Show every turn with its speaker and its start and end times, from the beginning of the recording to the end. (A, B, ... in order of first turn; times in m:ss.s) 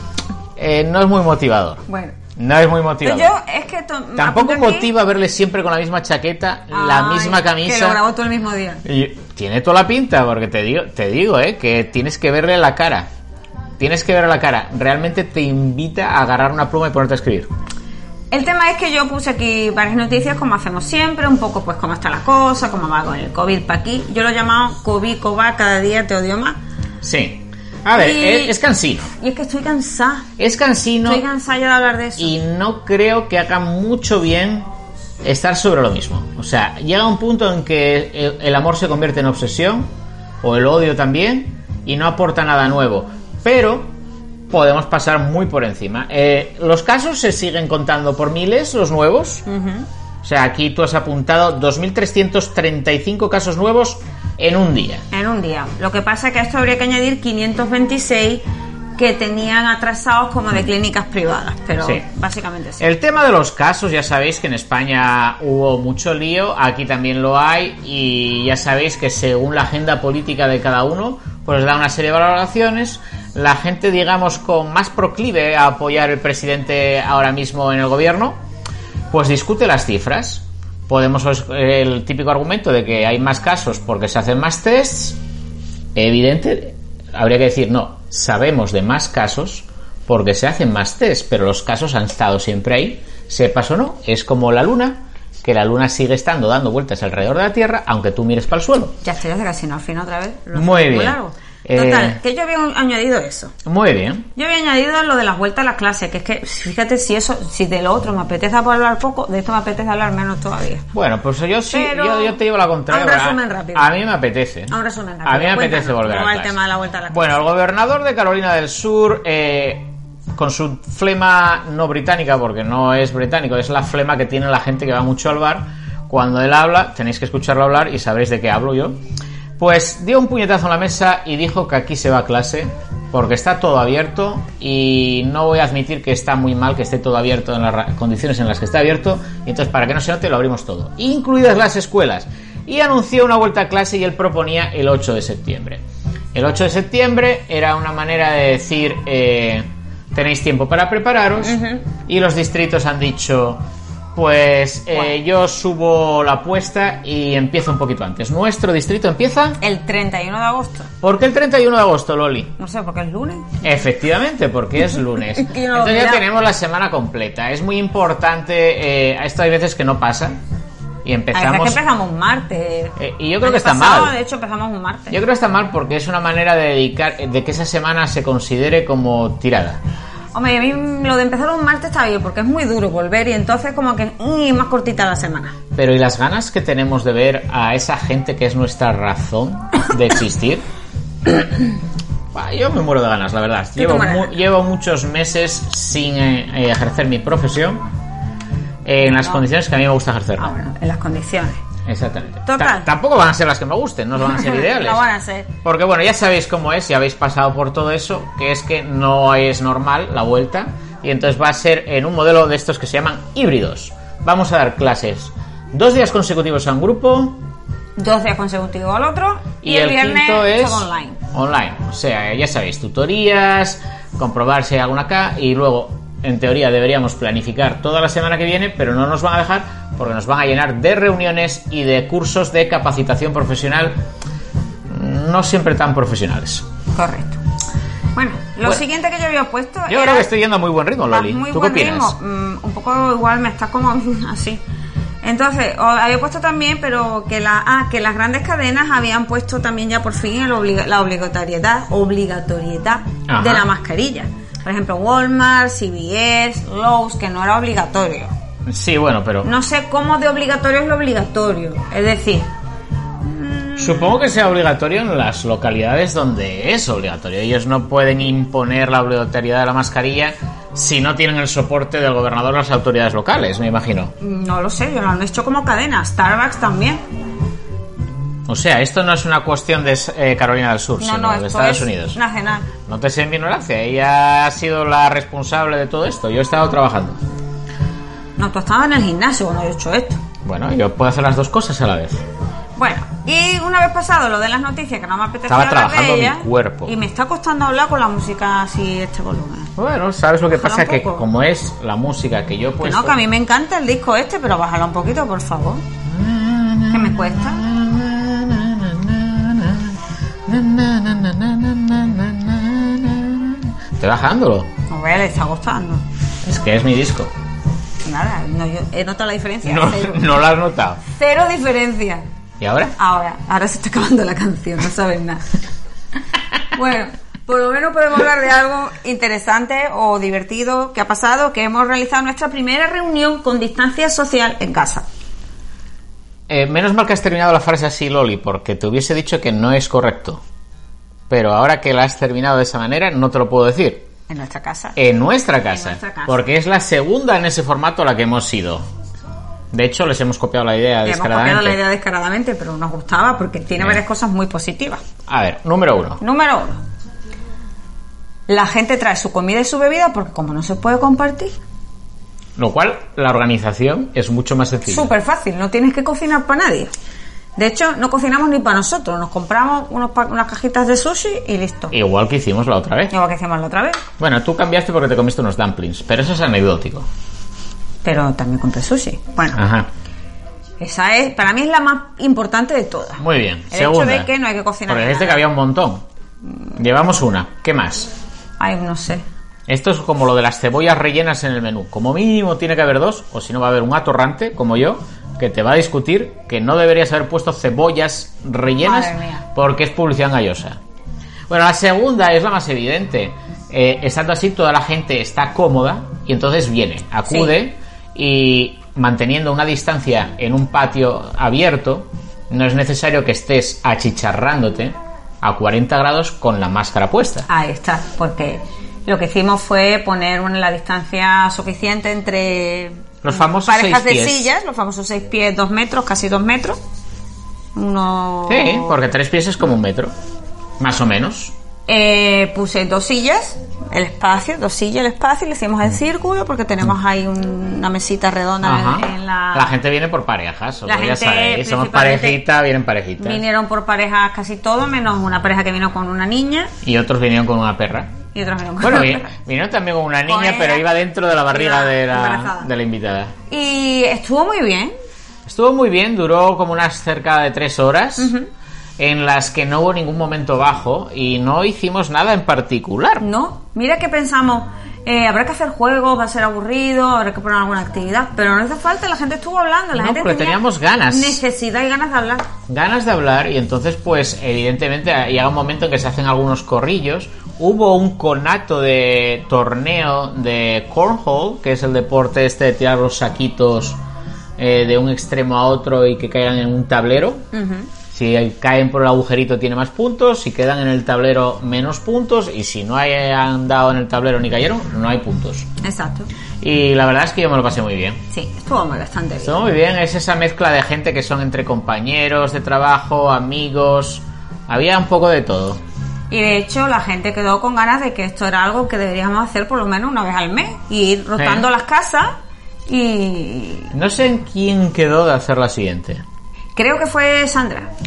0:00.6-0:01.8 A
0:01.9-0:02.2 B
0:02.4-0:03.3 A
0:03.0-0:04.9 B
0:04.2-0:08.0 A
0:06.7-0:08.8 B
0:08.8-0:13.1 A
0:13.8-0:17.5 A
0:18.3-0:26.6 B
0:27.0-0:29.1 A
0:27.9-0:28.6 B
0:29.1-0:30.3 B
0:30.4-0:31.2 A
0:31.0-0:32.3 B
0:32.2-0:34.7 A
0:35.2-0:39.9 A
0:40.4-0:43.9 A
0:44.5-0:49.4 A
0:49.5-0:49.9 B
0:50.2-0:55.0 A
0:55.1-0:58.4 B
0:59.0-1:02.8 B
1:02.8-1:18.4 A
1:19.1-1:25.2 A
1:26.0-1:39.0 A
1:39.0-1:43.6 B
1:40.5-1:42.2 A
1:43.6-1:44.3 A
1:44.4-1:50.9 B
1:50.9-1:54.7 A
1:51.7-1:53.9 B
1:54.7-1:57.4 B
1:55.2-1:56.6 A
1:57.1-2:09.0 A
2:09.6-2:25.8 A
2:26.3-2:33.6 A
2:31.4-2:31.9 B
2:34.2-2:39.6 A
2:39.6-2:40.9 B
2:41.0-2:42.5 A
2:42.6-2:43.6 B
2:43.6-2:50.4 A
2:45.4-2:46.2 B
2:51.0-2:51.8 A
2:51.3-2:55.2 B
2:53.0-2:54.2 A
2:55.1-2:59.8 A
3:00.3-3:05.6 B
3:05.7-3:10.6 A
3:12.3-3:17.8 A
3:13.8-3:14.4 B
3:18.8-3:20.5 A
3:19.0-3:19.4 B
3:20.4-3:21.6 B
3:21.9-3:25.1 A
3:22.5-3:22.9 B
3:24.2-3:25.5 B
3:25.6-3:37.4 A
3:38.0-3:41.2 B
3:39.6-3:54.0 A
3:54.9-3:56.7 A
3:56.9-3:57.4 B
3:58.2-4:00.3 B
3:59.9-4:02.2 A
4:01.1-4:04.6 B
4:05.2-4:18.3 B
4:13.3-4:13.7 A
4:18.7-4:19.5 A
4:19.4-4:22.5 B
4:23.2-4:24.2 B
4:23.8-4:34.1 A
4:34.2-4:37.0 B
4:38.5-4:42.2 A
4:41.0-4:42.7 B
4:42.9-4:47.2 A
4:48.4-4:50.2 B
4:50.4-4:52.2 A
4:52.8-4:59.8 B
4:55.5-4:56.9 A
4:59.8-5:03.2 A
5:00.5-5:01.3 B
5:02.8-5:05.8 B
5:06.1-5:14.7 A
5:06.9-5:07.6 B
5:14.9-5:16.0 B
5:16.4-5:17.3 A
5:18.0-5:20.3 B
5:19.6-5:21.0 A
5:21.1-5:22.3 B
5:22.6-5:23.0 A
5:23.0-5:25.5 B
5:26.7-5:35.0 B
5:36.5-5:40.4 A
5:41.3-5:44.1 A
5:44.3-5:45.0 B
5:45.0-5:48.9 A
5:45.7-5:46.4 B
5:49.7-5:51.8 A
5:51.0-5:55.0 B
5:55.3-5:56.2 A
5:56.2-5:56.8 B
5:58.5-6:01.5 B
6:02.6-6:05.1 A
6:04.9-6:06.9 B
6:07.6-6:11.9 B
6:11.9-6:13.1 A
6:13.1-6:14.0 B
6:14.2-6:17.1 A
6:18.0-6:19.6 B
6:19.6-6:19.9 A
6:20.8-6:25.4 B
6:23.2-6:24.3 A
6:24.9-6:26.0 A
6:26.8-6:28.1 A
6:28.6-6:29.2 B
6:29.7-6:40.8 A
6:38.8-6:39.4 B
6:41.5-6:57.5 A
6:47.3-6:47.6 B
6:57.5-7:06.8 B
7:03.2-7:04.5 A
7:07.8-7:09.0 B
7:08.5-7:10.1 A
7:10.8-7:11.5 A
7:11.9-7:19.8 B
7:18.6-7:23.4 A
7:20.9-7:22.4 B
7:23.2-7:26.7 B
7:26.8-7:28.2 A
7:28.3-7:29.3 B
7:28.8-7:33.3 A
7:30.3-7:30.9 B
7:31.5-7:32.7 B
7:33.5-7:35.0 B
7:35.5-7:38.3 A
7:38.2-7:38.5 B
7:39.0-7:43.2 A
7:43.2-7:52.5 B
7:49.9-7:51.4 A
7:52.7-8:04.0 A
8:04.6-8:07.5 A
8:07.5-8:07.9 B
8:08.1-8:15.7 A
8:15.8-8:16.3 B
8:16.6-8:18.2 A
8:18.3-8:19.6 B
8:19.4-8:25.8 A
8:26.3-8:32.4 B
8:31.4-8:31.7 A
8:32.9-8:33.9 B
8:33.9-8:36.2 A
8:36.8-8:37.9 B